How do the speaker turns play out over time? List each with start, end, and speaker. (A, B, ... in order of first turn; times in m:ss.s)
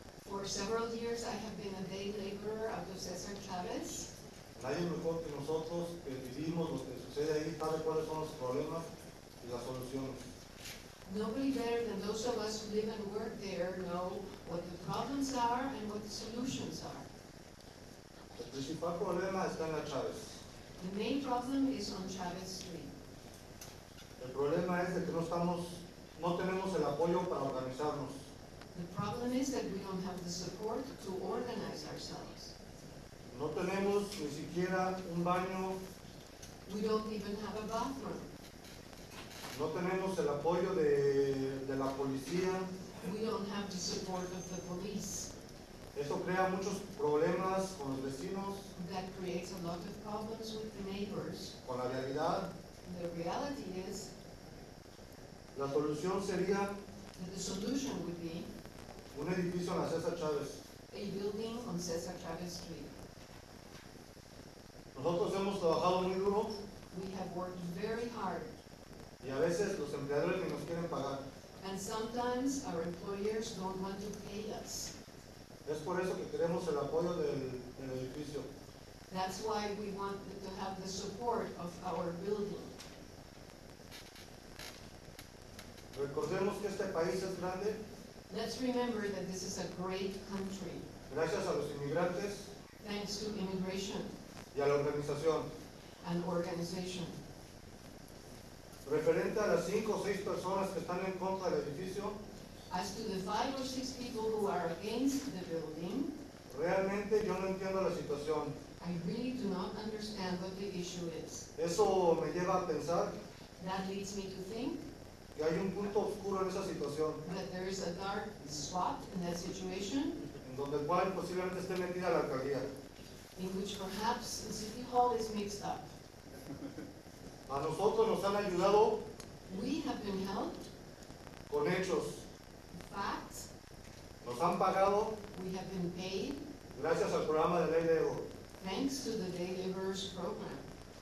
0:00.2-0:04.1 A
0:04.6-0:08.8 B
0:09.4-0:10.2 B
0:11.0-0:17.1 A
0:18.4-0:20.4 B
0:20.8-0:22.9 A
0:24.2-0:28.3 B
0:28.7-0:32.5 A
0:33.3-0:35.8 B
0:36.6-0:38.2 A
0:39.5-0:42.7 B
0:43.0-0:45.3 A
0:45.9-0:48.7 B
0:48.7-0:51.5 A
0:51.6-0:52.5 B
0:52.8-0:54.1 A
0:55.5-0:56.8 B
0:57.2-0:58.5 A
0:59.1-1:00.6 B
1:00.9-1:02.9 A
1:04.9-1:06.5 B
1:06.9-1:08.5 A
1:09.2-1:11.2 B
1:11.6-1:14.9 A
1:15.6-1:18.5 B
1:19.1-1:22.7 A
1:25.9-1:27.8 B
1:28.3-1:30.9 A
1:31.1-1:32.5 B
1:32.8-1:34.1 A
1:34.5-1:35.5 B
1:36.0-1:37.2 A
1:38.8-1:42.2 B
1:42.7-1:46.1 A
1:46.5-1:48.5 B
1:48.8-1:51.4 A
1:51.6-1:53.1 B
1:53.6-1:54.8 A
1:55.3-1:57.2 B
1:57.2-2:00.2 A
2:00.4-2:02.7 B
2:03.4-2:05.9 A
2:07.5-2:09.0 B
2:09.5-2:10.7 A
2:11.5-2:12.2 B
2:12.7-2:13.5 A
2:14.2-2:15.2 B
2:15.3-2:16.4 A
2:16.7-2:18.3 B
2:18.6-2:20.6 A